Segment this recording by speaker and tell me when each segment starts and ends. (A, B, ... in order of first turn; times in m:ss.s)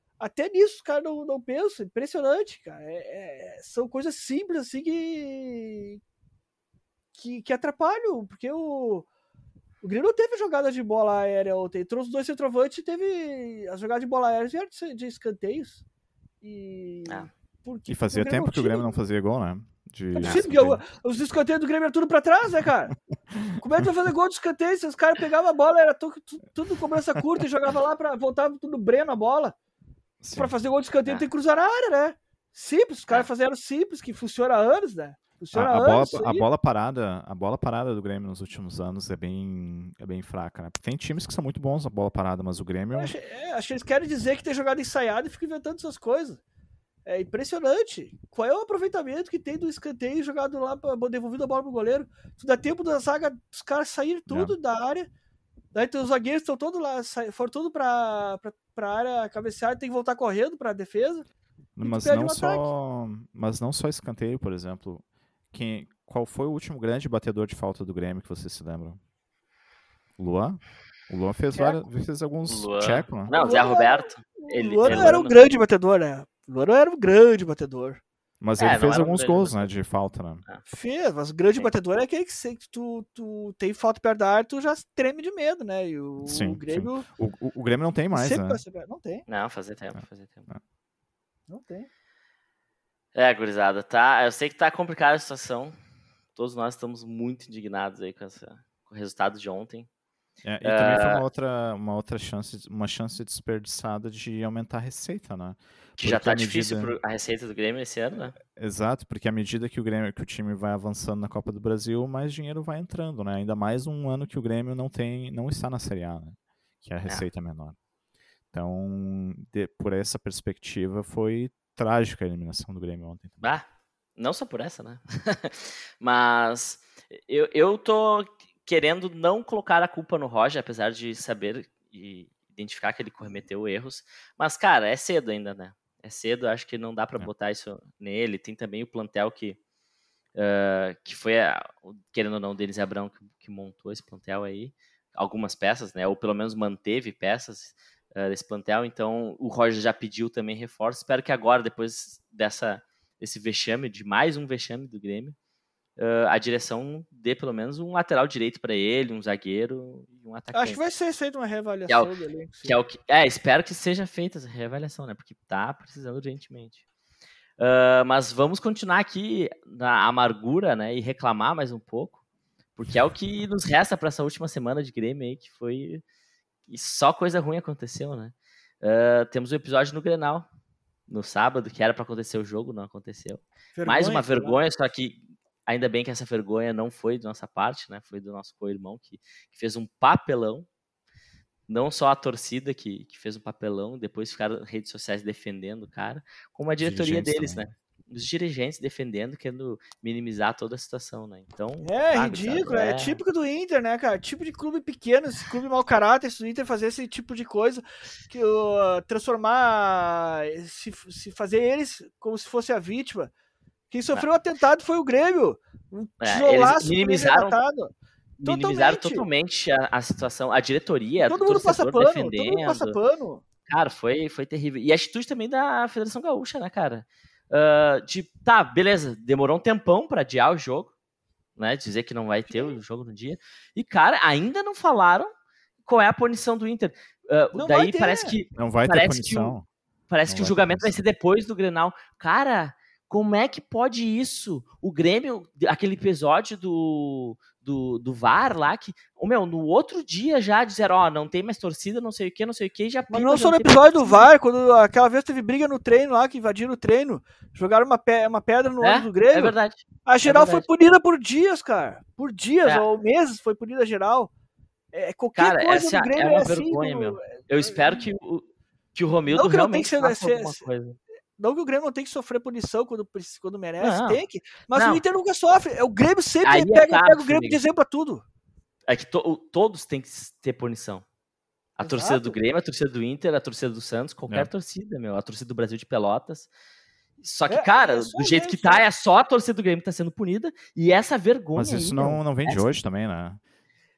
0:00.2-0:06.0 A
0:07.2-0:09.1 A
0:09.8-0:15.8 A
0:16.4-0:18.9 A
0:17.9-0:20.8 B
0:20.1-0:23.0 A
0:23.3-0:23.9 B
0:23.6-0:29.6 A
0:30.2-0:30.6 B
0:30.4-0:36.5 A
0:35.5-0:43.2 B
0:42.9-0:46.4 A
0:47.0-0:55.1 A
0:54.3-0:54.6 B
0:55.7-1:01.2 A
1:01.8-1:09.0 B
1:01.8-1:02.7 A
1:10.2-1:13.3 B
1:12.5-1:15.4 C
1:13.3-1:18.0 A
1:14.9-1:15.1 B
1:18.4-1:20.4 B
1:18.6-1:19.7 C
1:20.7-1:27.0 A
1:26.2-1:28.6 B
1:28.1-1:29.3 A
1:29.3-1:30.5 C
1:31.5-1:31.9 A
1:33.2-1:35.8 C
1:36.4-1:39.9 C
1:40.4-1:46.9 B
1:40.6-1:41.2 C
1:46.0-1:48.4 C
1:48.4-1:57.8 B
1:58.5-2:03.4 B
2:03.4-2:03.7 C
2:04.2-2:19.6 C
2:20.4-2:35.4 C
2:36.0-2:40.8 C
2:40.5-2:42.8 A
2:42.6-2:46.8 C
2:47.6-2:52.2 C
2:52.8-2:56.0 C
2:56.7-3:00.5 C
3:01.1-3:10.7 C
3:03.8-3:04.6 A
3:11.7-3:23.2 C
3:16.8-3:17.6 B
3:21.8-3:33.3 A
3:33.9-3:37.9 A
3:36.2-3:37.6 C
3:38.4-3:43.0 C
3:38.4-3:39.3 A
3:41.2-3:43.4 A
3:43.7-3:50.9 C
3:51.6-3:55.3 C
3:55.8-3:59.6 C
3:57.5-3:58.4 A
3:58.6-3:59.7 B
4:00.1-4:14.3 C
4:00.3-4:01.0 B
4:13.1-4:24.3 A
4:18.8-4:20.7 C
4:24.9-4:28.1 A
4:25.4-4:31.0 C
4:29.3-4:30.6 A
4:31.4-4:38.2 A
4:33.8-4:35.0 C
4:36.4-4:37.6 C
4:38.9-4:41.0 C
4:41.8-4:46.5 C
4:41.8-4:42.4 A
4:47.2-4:52.7 C
4:47.5-4:48.8 A
4:51.6-4:53.4 B